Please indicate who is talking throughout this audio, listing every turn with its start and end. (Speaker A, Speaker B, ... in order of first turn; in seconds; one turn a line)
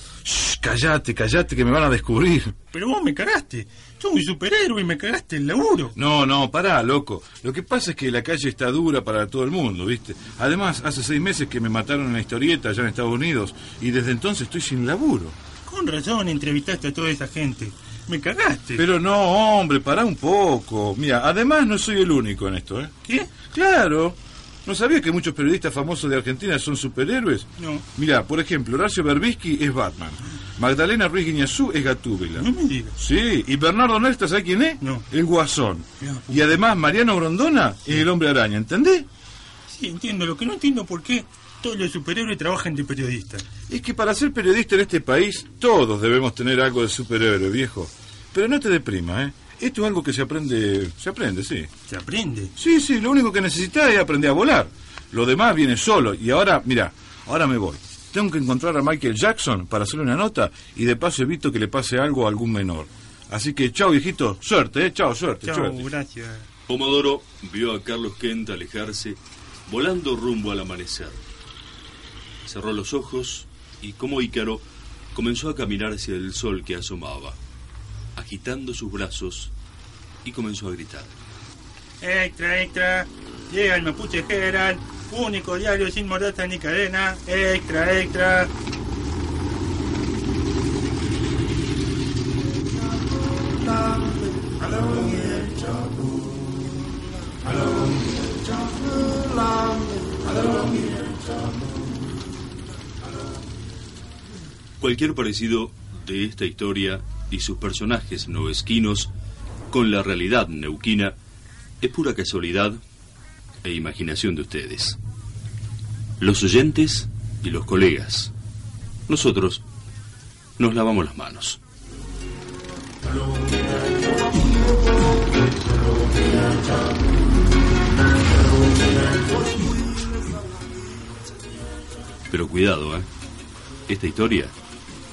Speaker A: 0.2-2.5
Speaker B: 2.7-6.0
Speaker A: 6.0-15.4
Speaker B: 15.7-18.8
Speaker A: 18.8-39.1
Speaker B: 23.0-23.3
Speaker B: 27.6-27.8
Speaker B: 32.4-32.9
Speaker B: 34.8-35.0
Speaker B: 36.0-36.4
Speaker B: 39.7-43.5
Speaker A: 43.7-51.7
Speaker B: 51.9-52.5
Speaker A: 52.6-65.8
Speaker B: 65.4-66.5
Speaker C: 66.7-71.2
Speaker C: 72.5-77.4
Speaker C: 78.2-79.5
Speaker C: 80.2-81.1
Speaker B: 82.0-88.5
Speaker C: 104.8-109.1
Speaker C: 109.7-111.2
Speaker C: 111.8-112.8
Speaker C: 113.6-115.0
Speaker C: 116.2-118.3
Speaker C: 119.1-119.6
Speaker C: 120.6-121.6
Speaker C: 132.3-133.1
Speaker C: 133.9-134.5